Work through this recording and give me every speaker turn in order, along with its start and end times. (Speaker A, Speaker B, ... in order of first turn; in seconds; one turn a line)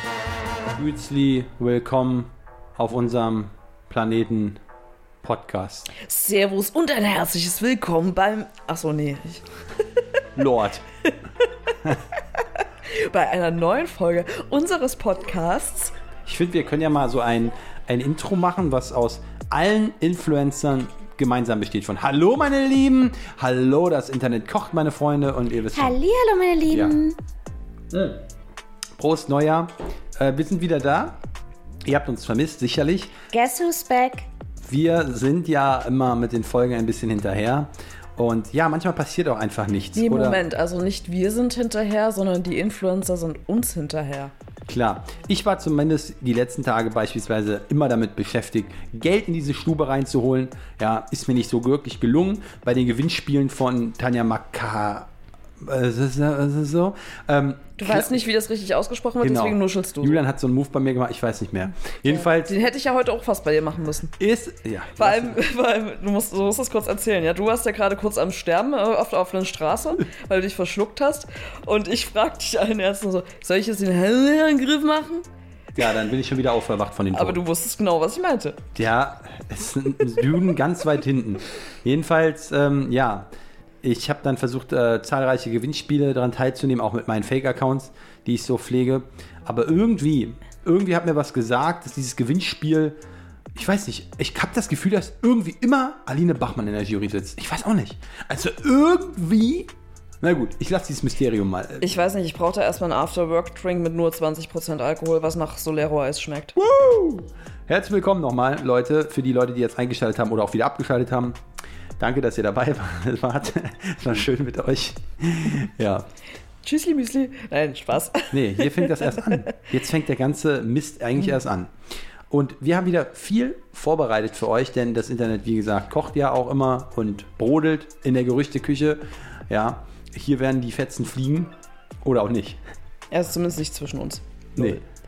Speaker A: 0.8-4.6
Speaker A: 5.2-5.9
Speaker B: 5.9-9.4
Speaker A: 10.3-10.8
Speaker B: 11.4-15.9
Speaker A: 16.3-26.0
Speaker C: 25.9-27.1
Speaker A: 26.7-27.0
Speaker A: 27.9-28.2
Speaker A: 29.0-31.2
Speaker A: 31.9-33.2
Speaker C: 33.3-34.2
Speaker B: 33.3-34.1
Speaker A: 34.6-40.4
Speaker B: 40.0-44.3
Speaker A: 44.7-58.2
Speaker B: 57.8-60.2
Speaker A: 59.2-62.5
Speaker B: 62.1-64.2
Speaker A: 64.2-65.4
Speaker B: 65.0-75.2
Speaker A: 75.8-77.4
Speaker B: 77.1-78.7
Speaker A: 78.8-83.3
Speaker A: 83.8-93.0
Speaker A: 93.5-101.9
Speaker B: 101.8-106.6
Speaker A: 106.6-111.4
Speaker A: 112.0-116.1
Speaker B: 116.6-119.5
Speaker A: 118.3-121.7
Speaker A: 122.3-131.5
Speaker A: 132.0-132.6
Speaker B: 133.1-134.8
Speaker A: 134.6-134.8